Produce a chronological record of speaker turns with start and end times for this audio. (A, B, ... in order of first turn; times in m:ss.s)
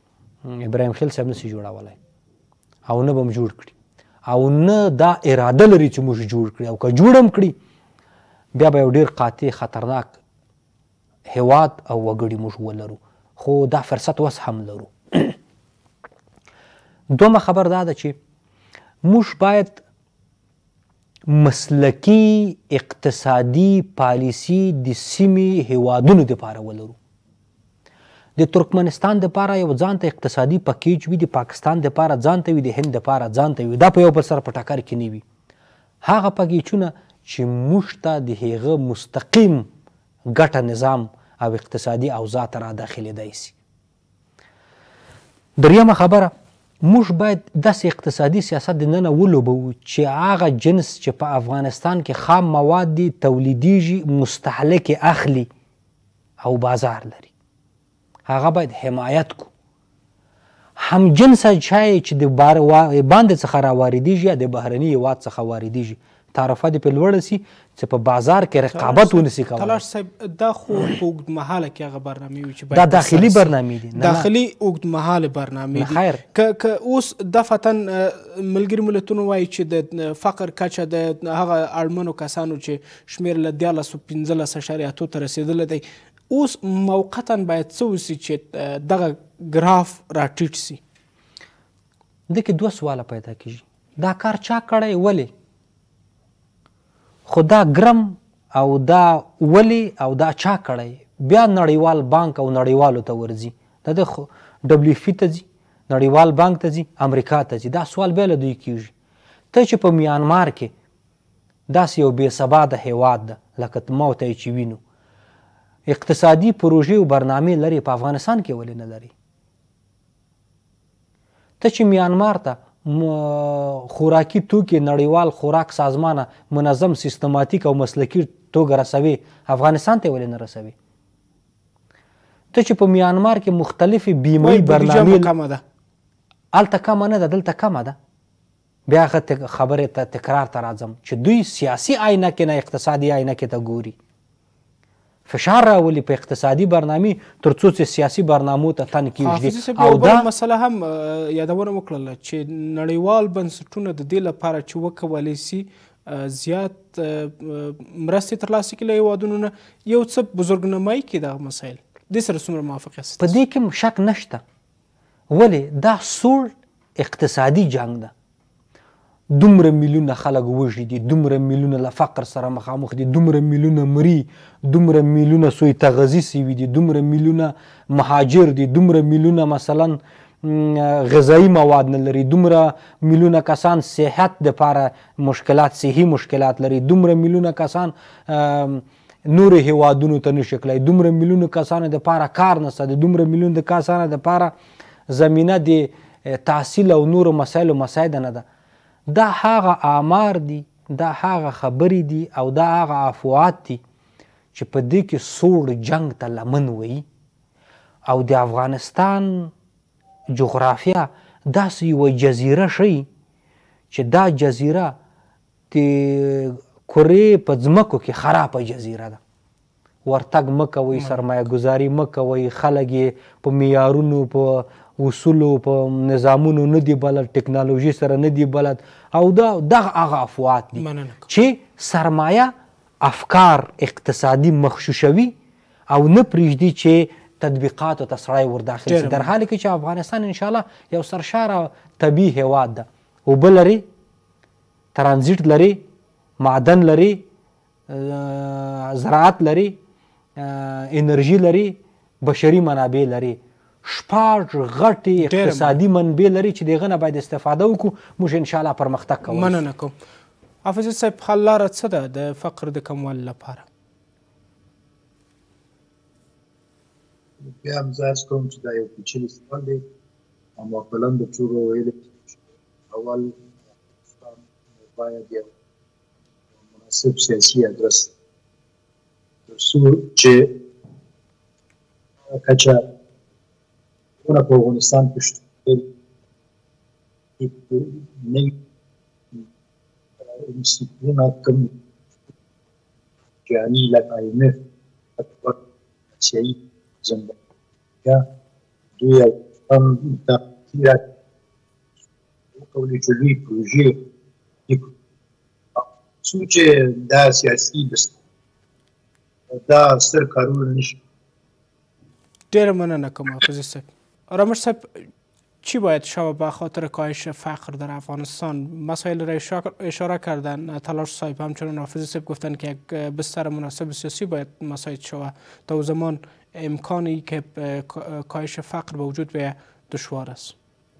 0:00.4-0:02.0 A
0:02.9-0:03.7 A
0:04.3-0:07.5 A
0:08.5-0:10.2 A
0:11.3-0:15.4 A
0:17.1-0:18.2 A
0:19.0-0:19.8 A
0:21.3-0:27.0 A
0:28.4-0:35.2 A
0:36.0-0:39.7 A
0:40.3-0:43.5 A
0:45.6-0:46.3 A
0:46.8-0:55.5 A
0:56.4-0:57.3 A
0:58.3-0:59.5 A
1:00.8-1:09.8 A
1:08.7-1:30.8 B
1:12.7-1:14.3 A
1:15.7-1:16.2 A
1:32.3-1:35.3 A
1:37.3-1:48.9 A
1:49.5-1:50.7 A
1:51.7-1:54.8 A
1:55.9-1:59.1 A
2:01.6-2:10.7 A
2:12.5-2:15.3 A
2:14.4-2:15.6 B
2:16.5-2:18.0 A
2:18.9-2:23.9 A
2:25.3-2:30.3 A
2:29.2-2:43.4 B
2:43.2-2:44.4 A
2:45.3-2:48.1 A
2:49.3-3:14.5 A
3:15.1-3:18.4 A
3:19.1-3:23.8 A
3:24.5-3:27.0 A
3:28.1-3:29.5 A
3:30.3-3:33.0 A
3:33.9-3:34.9 A
3:35.7-3:39.2 A
3:40.0-3:55.3 A
3:40.9-3:41.2 B
3:50.8-3:51.3 B
3:55.9-4:03.8 A
3:58.9-3:59.3 B
4:04.9-4:05.8 A
4:06.4-4:07.2 A
4:07.9-4:09.8 A
4:10.4-4:19.6 A
4:15.2-4:15.8 B
4:19.3-4:19.9 B
4:20.6-4:23.7 B
4:27.4-4:29.8 C
4:30.6-4:32.3 C
4:32.9-4:33.5 C
4:34.0-4:35.5 C
4:36.7-4:38.1 C
4:39.5-4:40.5 C
4:42.3-4:42.8 C
4:44.2-4:45.8 C
4:47.4-4:48.6 C
4:50.2-4:51.7 C
4:53.4-4:54.6 C
4:55.2-4:55.6 C
4:56.1-4:57.4 C
4:59.0-5:01.1 C
5:02.5-5:04.0 C
5:05.8-5:08.2 C
5:09.5-5:11.0 C
5:12.5-5:15.1 B
5:15.6-5:30.6 B